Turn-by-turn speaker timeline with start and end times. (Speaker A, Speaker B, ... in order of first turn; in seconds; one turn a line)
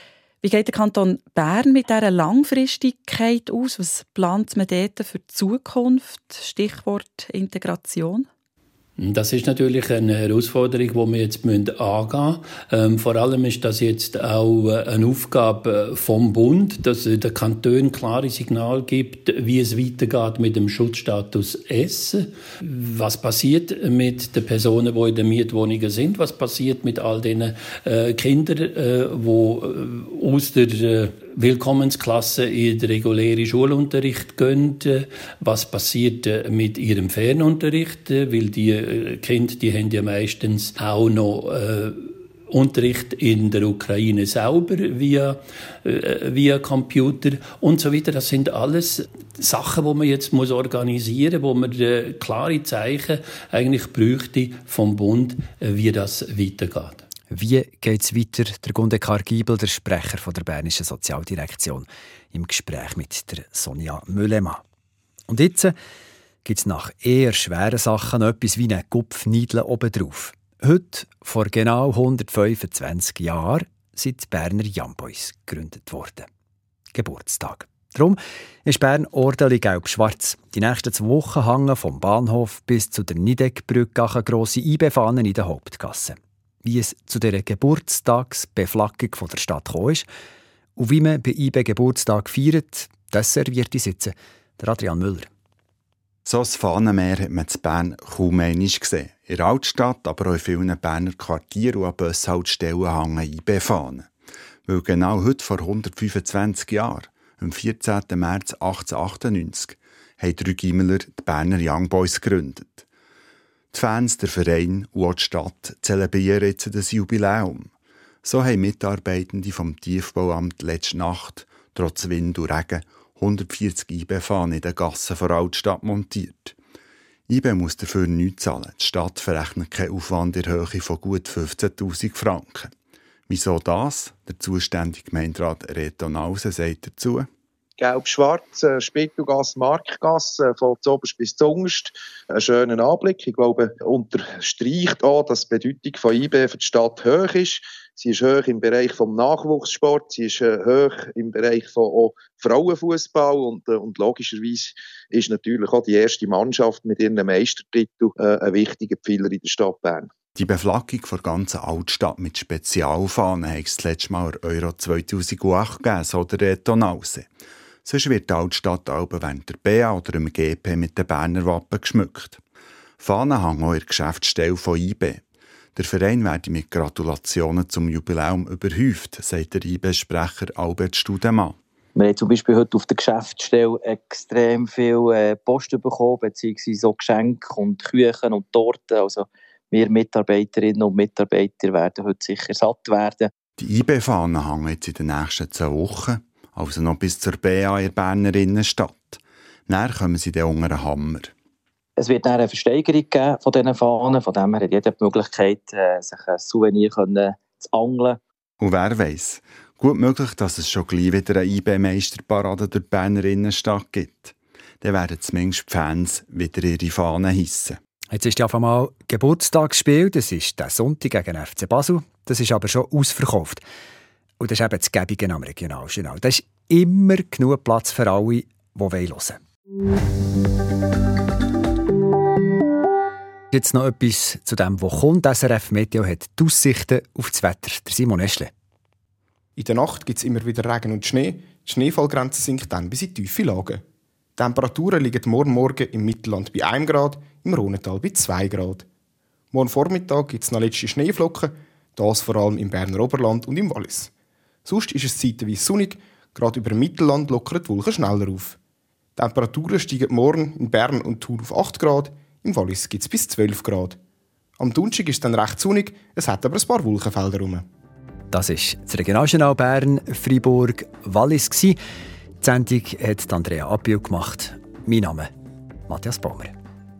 Speaker A: 0.4-8.3
Speaker B: 9.0-57.0
Speaker C: 57.3-64.6
Speaker C: 65.3-65.8
Speaker C: 66.4-76.3
Speaker C: 76.9-90.1
Speaker C: 90.8-95.3
Speaker D: 96.2-104.1
Speaker D: 104.7-112.8
Speaker D: 113.7-117.7
Speaker D: 118.2-126.5
Speaker D: 127.3-132.7
Speaker D: 133.3-137.3
Speaker E: 137.8-160.1
Speaker D: 160.4-167.3
Speaker D: 167.8-172.4
Speaker D: 173.0-175.2
Speaker D: 175.8-181.6
Speaker F: 181.9-193.3
Speaker D: 193.6-201.3
Speaker F: 202.0-208.2
Speaker D: 208.6-217.8
Speaker C: 218.1-223.6
Speaker C: 224.4-229.4
Speaker C: 233.5-238.5
Speaker G: 239.6-243.8
Speaker G: 244.4-248.9
Speaker G: 249.5-254.1
Speaker G: 254.7-258.6
Speaker G: 259.1-264.0
Speaker G: 264.6-267.6
Speaker C: 268.3-271.8
Speaker C: 272.4-275.3
Speaker C: 275.9-276.6